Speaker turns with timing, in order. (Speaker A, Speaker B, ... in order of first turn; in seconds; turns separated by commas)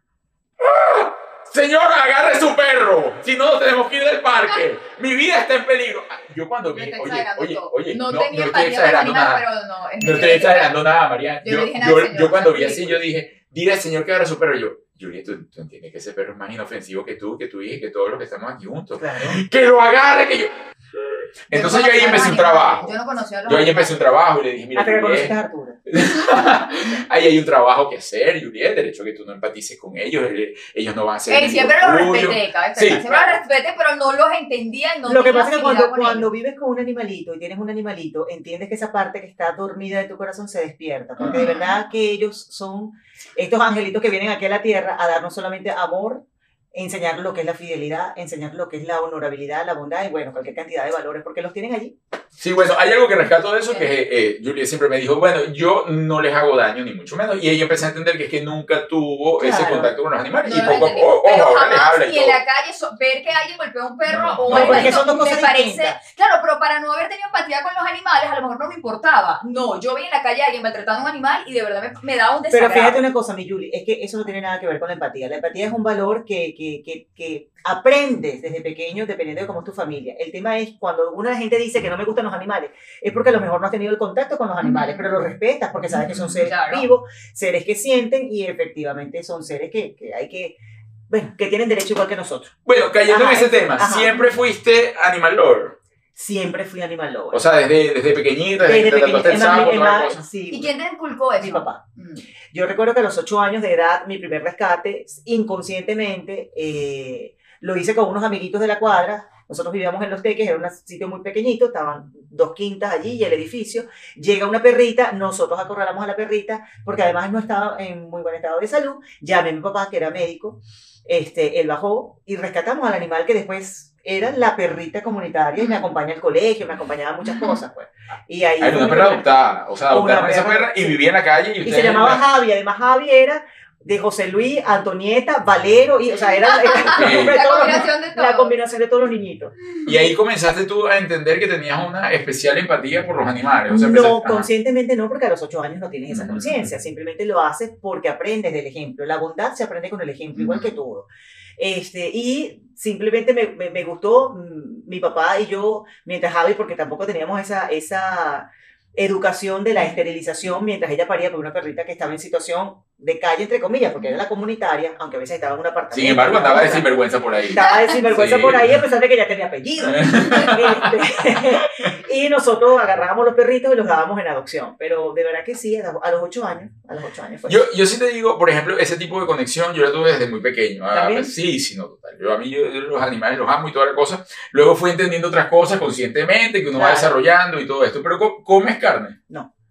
Speaker A: 0.6-9.4, Speaker B: 6.7-10.8, Speaker A: 10.0-25.3, Speaker B: 11.4-13.0, Speaker C: 19.0-19.4, Speaker B: 21.5-23.9, Speaker C: 24.8-25.8, Speaker A: 25.9-33.3, Speaker B: 31.3-36.3, Speaker C: 33.0-33.4, Speaker C: 35.1-52.0, Speaker B: 41.2-41.7, Speaker A: 52.4-62.4, Speaker C: 59.4-59.9, Speaker B: 60.4-73.0, Speaker A: 64.1-65.0, Speaker C: 64.5-66.0, Speaker C: 72.5-90.6, Speaker B: 84.6-85.1, Speaker A: 85.9-86.5, Speaker B: 86.5-86.9, Speaker C: 91.1-92.5, Speaker A: 92.7-95.8, Speaker C: 93.1-94.1, Speaker C: 96.2-97.4, Speaker A: 97.3-100.2, Speaker C: 98.6-100.7, Speaker B: 100.5-102.2, Speaker C: 101.4-101.8, Speaker C: 102.5-129.2, Speaker B: 125.6-125.9, Speaker B: 127.3-127.6, Speaker A: 128.6-132.2, Speaker C: 129.9-131.0, Speaker C: 131.6-139.5, Speaker B: 136.5-138.5, Speaker A: 136.8-137.9, Speaker A: 139.9-144.5, Speaker C: 143.7-151.1, Speaker A: 146.1-146.7, Speaker A: 150.4-150.7, Speaker C: 151.6-166.9, Speaker A: 165.9-168.8, Speaker C: 167.5-177.7, Speaker B: 167.6-168.0, Speaker A: 169.8-171.8, Speaker A: 177.5-189.2, Speaker C: 180.9-181.3, Speaker C: 186.7-187.2